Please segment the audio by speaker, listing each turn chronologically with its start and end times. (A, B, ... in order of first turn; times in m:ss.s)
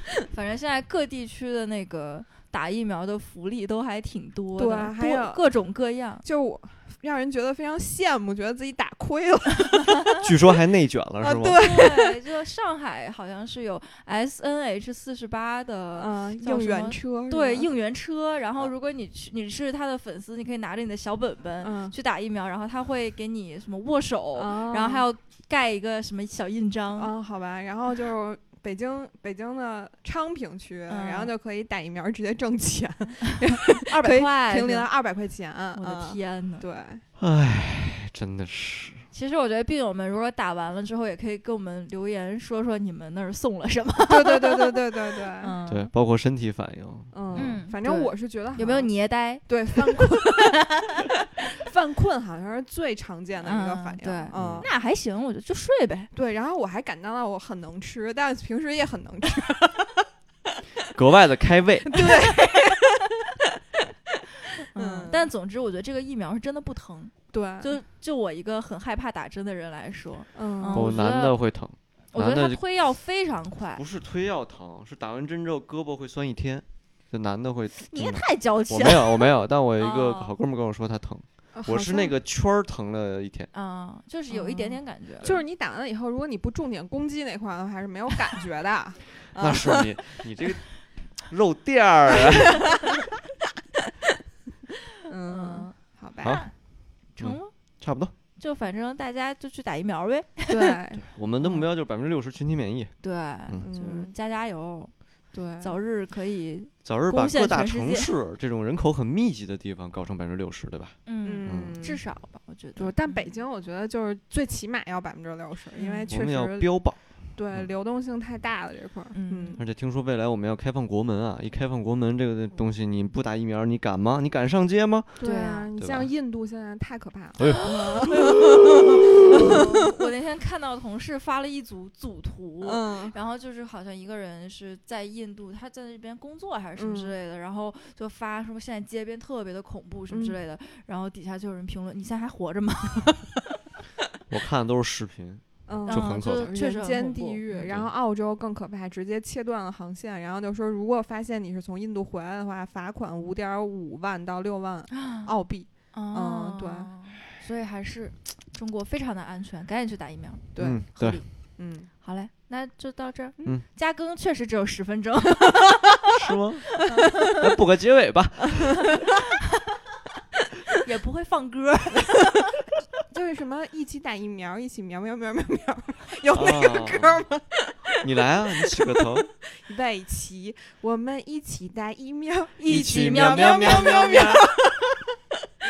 0:00.3-0:06.2 A
0:04.6-0:05.4 B
0:06.2-0:10.3 B
0:10.2-0:11.7 C
0:11.2-0:12.2 B
0:11.6-0:27.1 A
0:16.0-0:17.7 B
0:21.6-0:22.0 B
0:24.4-0:25.1 B
0:27.0-0:37.0 B
0:30.9-0:31.3 A
0:33.7-0:34.9 A
0:35.7-0:36.7 A
0:37.2-0:39.1 C
0:39.1-0:45.9 A
0:44.0-0:45.6 B
0:45.7-0:47.6 C
0:47.1-0:50.8 B
0:47.4-0:50.2 A
0:51.6-0:54.7 B
0:53.4-0:56.1 A
0:54.3-0:54.7 C
0:56.1-1:00.1 B
1:00.9-1:02.2 C
1:01.9-1:03.2 B
1:04.7-1:11.4 A
1:04.8-1:05.3 B
1:07.3-1:07.8 B
1:10.4-1:10.9 B
1:10.7-1:12.6 C
1:12.1-1:13.8 A
1:13.8-1:23.5 C
1:17.8-1:20.3 A
1:21.5-1:22.2 B
1:23.5-1:25.4 A
1:24.3-1:30.0 B
1:29.4-1:32.8 C
1:35.0-1:36.4 B
1:35.3-1:36.5 A
1:36.2-1:38.1 C
1:37.1-1:37.5 A
1:38.4-1:41.6 A
1:40.5-1:41.1 B
1:41.2-1:43.6 C
1:43.0-1:48.1 A
1:43.6-1:44.1 B
1:45.3-1:45.8 B
1:46.8-1:51.8 C
1:51.0-1:53.4 A
1:51.2-1:52.0 B
1:52.8-1:59.6 B
1:55.7-1:56.1 A
1:56.1-1:57.7 C
1:59.1-1:59.6 A
1:59.6-2:05.2 C
2:05.2-2:09.7 B
2:05.2-2:05.7 A
2:05.8-2:06.1 C
2:07.4-2:08.8 C
2:08.1-2:23.3 A
2:12.6-2:13.2 B
2:16.8-2:17.2 B
2:20.1-2:20.4 B
2:24.3-2:26.5 C
2:25.7-2:36.9 B
2:25.9-2:27.4 A
2:27.5-2:27.9 C
2:34.9-2:35.3 A
2:35.9-2:46.0 A
2:40.6-2:40.9 B
2:40.6-2:41.2 C
2:41.6-2:41.9 B
2:46.1-2:48.9 C
2:46.8-2:47.4 A
2:50.8-2:52.5 A
2:53.1-2:58.1 B
2:56.3-2:57.2 C
2:58.0-2:59.3 C
2:58.6-2:59.0 B
2:59.5-3:05.0 B
3:02.6-3:04.3 A
3:02.6-3:04.5 C